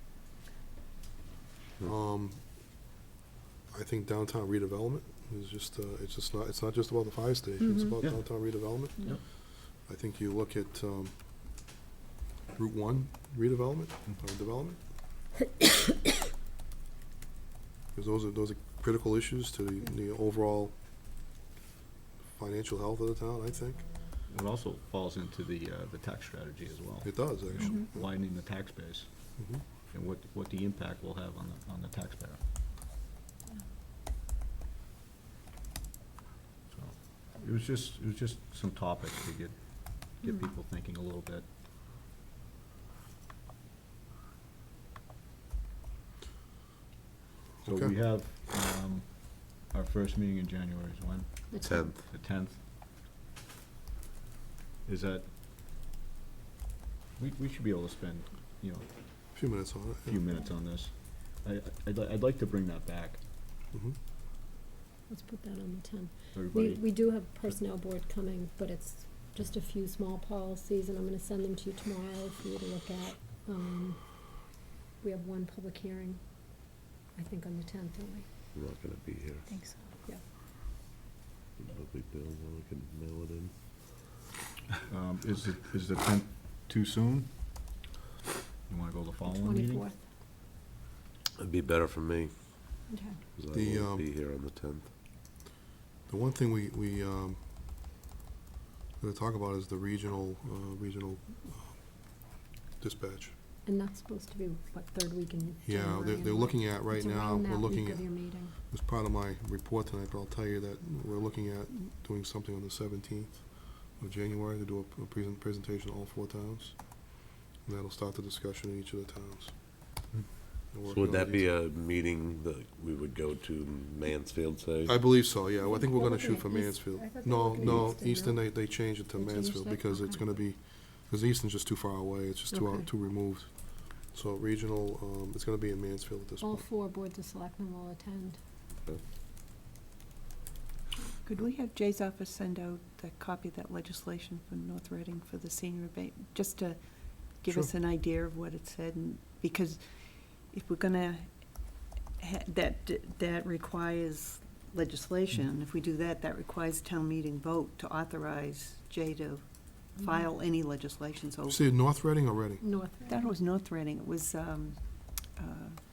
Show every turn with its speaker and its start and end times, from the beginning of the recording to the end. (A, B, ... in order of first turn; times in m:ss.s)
0:01.8-0:02.4 A
0:03.7-0:09.2 A
0:08.0-0:08.5 B
0:09.8-0:11.2 A
0:12.5-0:14.8 A
0:17.9-0:20.7 A
0:22.3-0:23.8 A
0:24.3-0:29.1 B
0:27.0-0:27.9 A
0:29.4-0:29.6 A
0:29.9-0:32.4 B
0:36.7-0:41.4 B
0:47.6-0:52.6 B
0:47.6-0:47.9 A
0:51.5-0:52.0 C
0:51.6-0:52.0 D
0:54.8-0:55.3 B
0:57.2-0:59.3 B
0:59.3-1:00.2 A
1:00.0-1:03.2 B
1:05.1-1:14.4 C
1:06.3-1:06.8 B
1:15.0-1:16.2 C
1:17.1-1:18.3 C
1:18.5-1:19.6 D
1:19.5-1:20.2 C
1:21.6-1:23.5 D
1:24.9-1:27.3 B
1:28.7-1:29.8 B
1:29.2-1:30.0 C
1:31.4-1:32.4 D
1:32.9-1:33.2 C
1:33.4-1:34.9 D
1:33.5-1:34.1 A
1:36.1-1:37.4 A
1:39.0-1:41.8 A
1:42.8-1:43.3 A
1:43.6-1:48.5 C
1:45.6-1:59.6 A
2:00.7-2:01.5 A
2:00.9-2:05.0 D
2:04.8-2:16.7 A
2:05.6-2:10.4 C
2:07.6-2:07.9 D
2:12.5-2:12.8 E
2:16.4-2:18.4 C
2:21.0-2:39.4 E
2:40.0-2:41.6 E
2:41.5-2:42.6 A
2:42.6-2:43.3 C
2:43.1-2:45.8 E